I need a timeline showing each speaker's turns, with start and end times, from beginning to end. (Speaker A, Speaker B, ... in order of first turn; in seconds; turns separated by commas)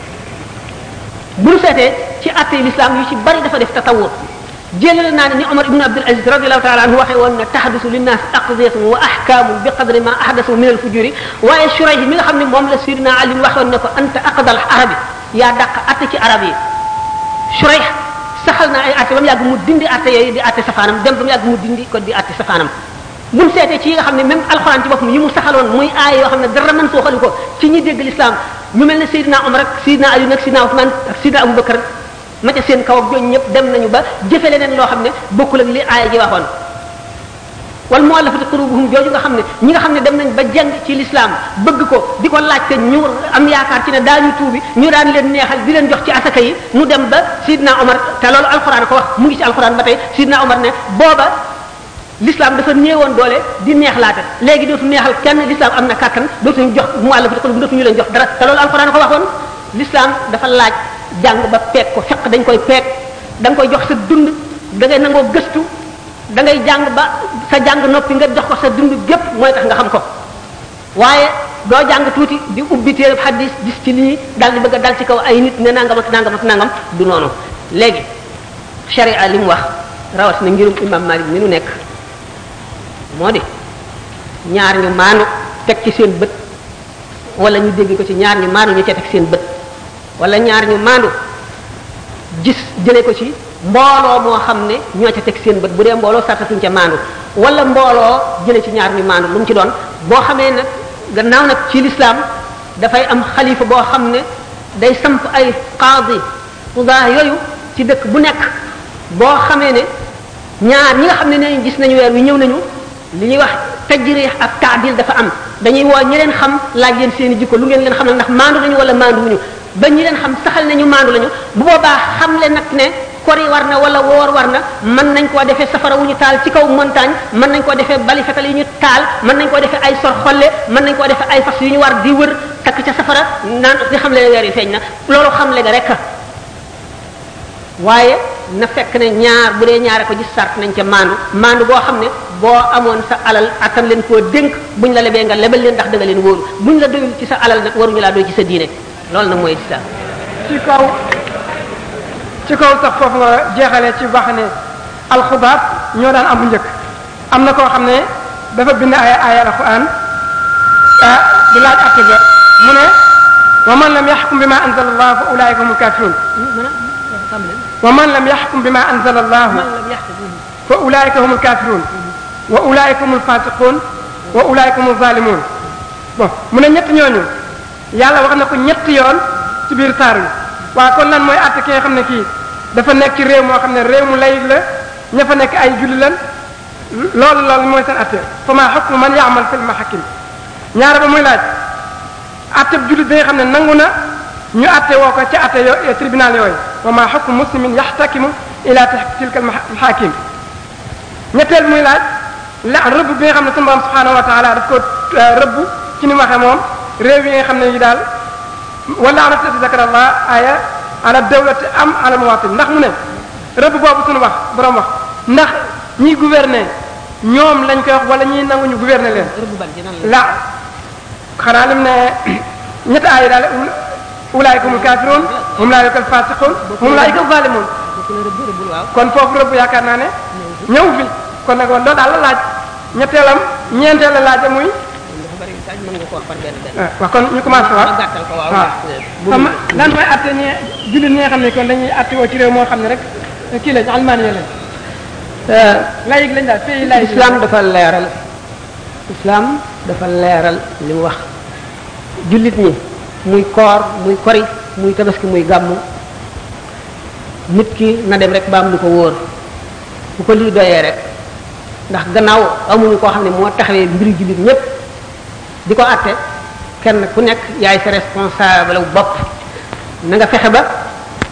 Speaker A: 1.4-16.6, Speaker A: 17.5-22.7, Speaker A: 23.3-31.8, Speaker A: 32.4-36.5, Speaker A: 37.9-51.4, Speaker A: 52.2-65.7, Speaker A: 66.3-70.0, Speaker A: 71.0-78.1, Speaker A: 78.9-81.8, Speaker A: 83.1-83.4, Speaker A: 84.5-86.3, Speaker A: 87.4-89.4, Speaker A: 90.2-91.1, Speaker A: 92.4-102.2, Speaker A: 102.8-104.2, Speaker A: 104.8-108.5, Speaker A: 109.1-109.9, Speaker A: 110.6-136.0, Speaker A: 137.8-149.8, Speaker B: 150.5-151.0, Speaker B: 152.5-154.5, Speaker B: 155.1-156.7, Speaker B: 157.3-159.9, Speaker B: 161.0-162.9, Speaker B: 163.7-166.2, Speaker A: 166.3-167.7, Speaker B: 167.8-169.7, Speaker A: 169.5-170.4, Speaker B: 170.7-171.9, Speaker B: 172.5-175.4, Speaker B: 176.2-177.3, Speaker B: 177.9-186.2, Speaker B: 187.0-190.1, Speaker B: 190.7-191.5, Speaker B: 192.6-193.9, Speaker B: 194.5-200.2, Speaker B: 201.3-202.0, Speaker B: 202.6-208.0, Speaker B: 208.9-212.9, Speaker B: 213.6-216.7, Speaker B: 217.2-219.3, Speaker A: 219.1-220.4, Speaker B: 220.0-220.3, Speaker B: 221.4-223.8, Speaker B: 224.3-227.7, Speaker A: 224.6-225.7, Speaker A: 226.6-227.2, Speaker A: 227.8-228.9, Speaker B: 228.9-230.1, Speaker A: 230.3-230.7, Speaker B: 230.7-234.7, Speaker A: 235.1-236.8, Speaker B: 236.8-237.9, Speaker A: 237.4-239.9, Speaker B: 239.3-244.5, Speaker A: 245.5-245.9, Speaker B: 245.6-247.4, Speaker A: 246.8-248.2, Speaker A: 249.1-251.3, Speaker A: 252.2-255.8, Speaker A: 257.5-259.2, Speaker A: 260.2-261.0, Speaker A: 261.9-264.6, Speaker A: 265.7-266.2, Speaker A: 266.8-269.3, Speaker A: 270.0-270.7